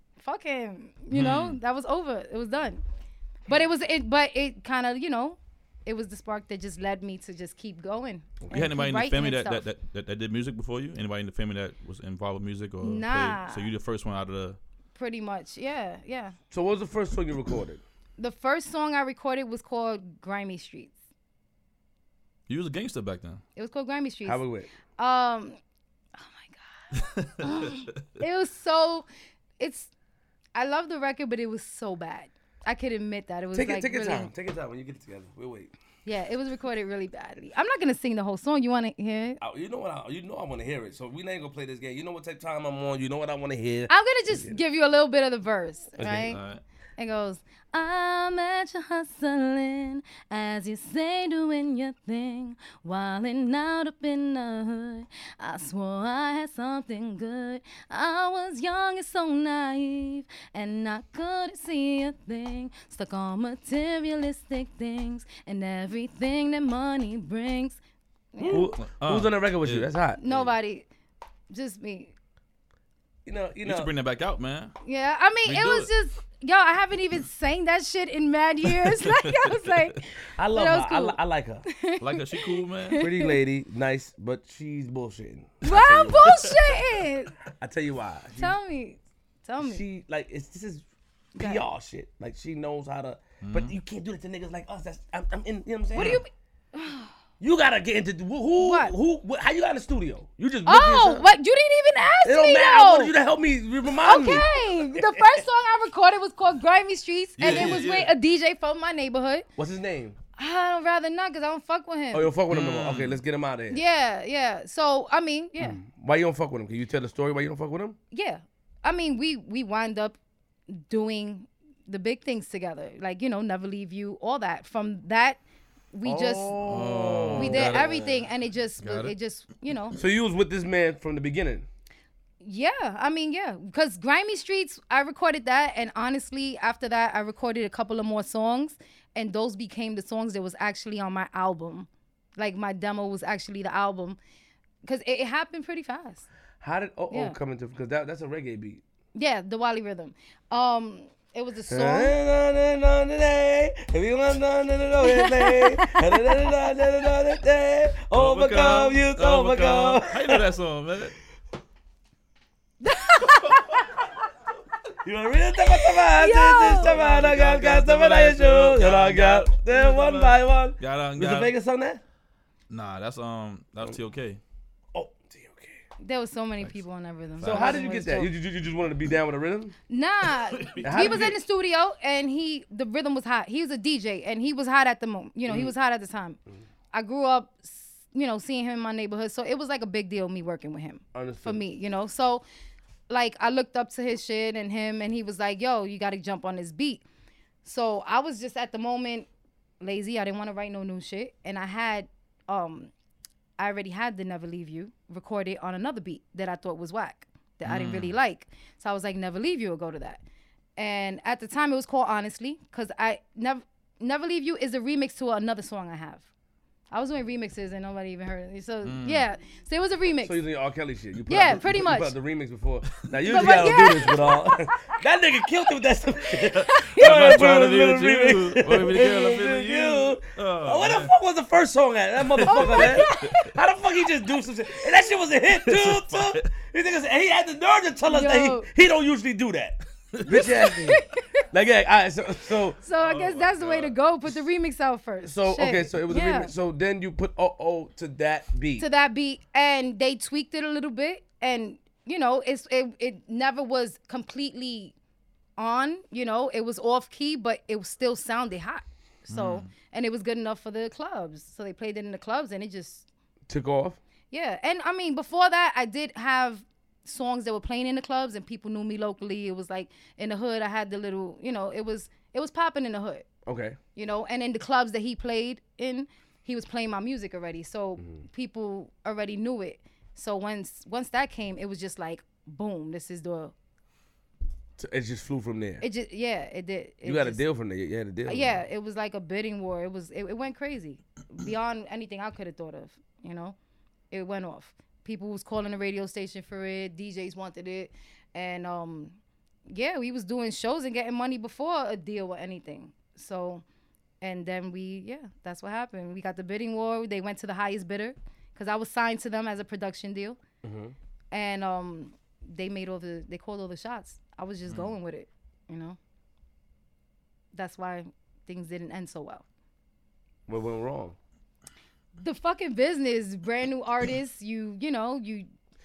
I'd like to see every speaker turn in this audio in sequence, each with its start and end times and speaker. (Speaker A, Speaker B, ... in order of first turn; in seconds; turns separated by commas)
Speaker A: 0.2-2.8, Speaker B: 1.1-1.6, Speaker A: 3.5-9.7, Speaker C: 8.4-8.7, Speaker B: 8.5-14.6, Speaker A: 12.8-13.7, Speaker A: 15.0-16.4, Speaker C: 16.5-17.8, Speaker A: 18.2-20.9, Speaker B: 22.5-23.4, Speaker A: 23.6-24.4, Speaker C: 24.2-24.7, Speaker A: 25.0-25.6, Speaker A: 26.2-29.1, Speaker B: 26.9-27.8, Speaker A: 29.6-29.9, Speaker A: 30.6-34.3, Speaker C: 33.5-35.7, Speaker A: 36.0-39.4, Speaker C: 39.4-44.6, Speaker A: 43.9-46.4, Speaker B: 46.0-46.6, Speaker A: 47.0-67.8, Speaker A: 68.3-68.7, Speaker C: 68.4-70.2, Speaker B: 68.5-70.5, Speaker A: 70.2-70.9, Speaker A: 71.5-72.1, Speaker C: 73.2-73.9, Speaker B: 73.6-74.7, Speaker A: 74.8-83.4, Speaker B: 75.5-75.9, Speaker B: 78.7-79.8, Speaker C: 80.4-81.7, Speaker B: 82.0-83.1, Speaker C: 83.0-86.5, Speaker A: 85.6-87.3, Speaker B: 86.2-86.8, Speaker C: 87.6-88.6, Speaker A: 88.4-89.8, Speaker C: 89.6-96.2, Speaker A: 91.4-91.6, Speaker B: 93.4-93.7, Speaker A: 95.9-97.1, Speaker C: 97.4-101.2, Speaker A: 98.6-98.9, Speaker A: 100.7-103.1, Speaker C: 102.2-105.4, Speaker A: 104.0-109.5, Speaker B: 107.4-108.1, Speaker C: 107.5-107.8, Speaker C: 109.6-110.2, Speaker A: 110.4-112.3, Speaker C: 112.1-113.8, Speaker B: 112.5-113.2, Speaker A: 113.7-115.8, Speaker C: 115.6-118.0, Speaker A: 118.1-120.2, Speaker A: 120.7-125.4, Speaker A: 125.9-126.8, Speaker C: 126.0-128.2, Speaker B: 126.7-128.2, Speaker A: 127.3-130.0, Speaker B: 128.8-129.2, Speaker C: 129.9-131.7, Speaker A: 132.4-144.2, Speaker A: 144.8-146.3, Speaker C: 146.6-148.8, Speaker A: 147.1-147.4, Speaker A: 149.2-152.2, Speaker C: 151.7-160.4, Speaker A: 155.0-156.4, Speaker B: 158.1-161.2, Speaker A: 162.8-163.8, Speaker C: 165.0-172.0, Speaker A: 165.6-166.9, Speaker B: 166.7-171.5, Speaker B: 172.7-174.4, Speaker C: 174.9-175.8, Speaker A: 176.0-178.3, Speaker B: 177.4-177.9, Speaker C: 177.4-179.8, Speaker A: 179.9-186.4, Speaker B: 180.3-181.4, Speaker C: 180.8-181.3, Speaker A: 186.9-192.4, Speaker C: 191.1-191.6, Speaker A: 193.1-197.0, Speaker A: 197.6-199.3, Speaker A: 199.8-202.9, Speaker A: 203.6-210.2, Speaker B: 207.7-208.2, Speaker A: 210.8-216.3, Speaker A: 216.9-220.4, Speaker B: 218.8-219.3, Speaker C: 220.2-242.8, Speaker A: 221.3-222.2, Speaker B: 223.0-223.7, Speaker A: 223.3-224.5, Speaker B: 226.6-231.1, Speaker A: 226.7-227.2, Speaker B: 232.3-233.3, Speaker A: 232.5-233.5, Speaker B: 235.6-236.5, Speaker A: 238.1-238.7, Speaker B: 240.1-240.5, Speaker A: 240.3-241.4, Speaker A: 242.8-246.5, Speaker B: 242.9-244.0, Speaker C: 245.2-248.9, Speaker A: 248.8-254.9, Speaker A: 255.6-263.1, Speaker B: 259.3-259.7, Speaker C: 263.5-264.0, Speaker A: 264.3-273.3, Speaker C: 273.5-273.8, Speaker A: 274.0-283.5, Speaker C: 278.0-278.2, Speaker C: 284.8-285.9, Speaker A: 285.8-287.4, Speaker C: 287.1-288.6, Speaker A: 288.3-293.6, Speaker A: 294.1-299.2, Speaker A: 299.7-303.6, Speaker A: 304.2-310.4, Speaker C: 310.6-310.9, Speaker A: 311.3-316.0, Speaker B: 314.7-314.9, Speaker A: 317.5-319.4, Speaker C: 320.5-321.2, Speaker A: 322.2-325.5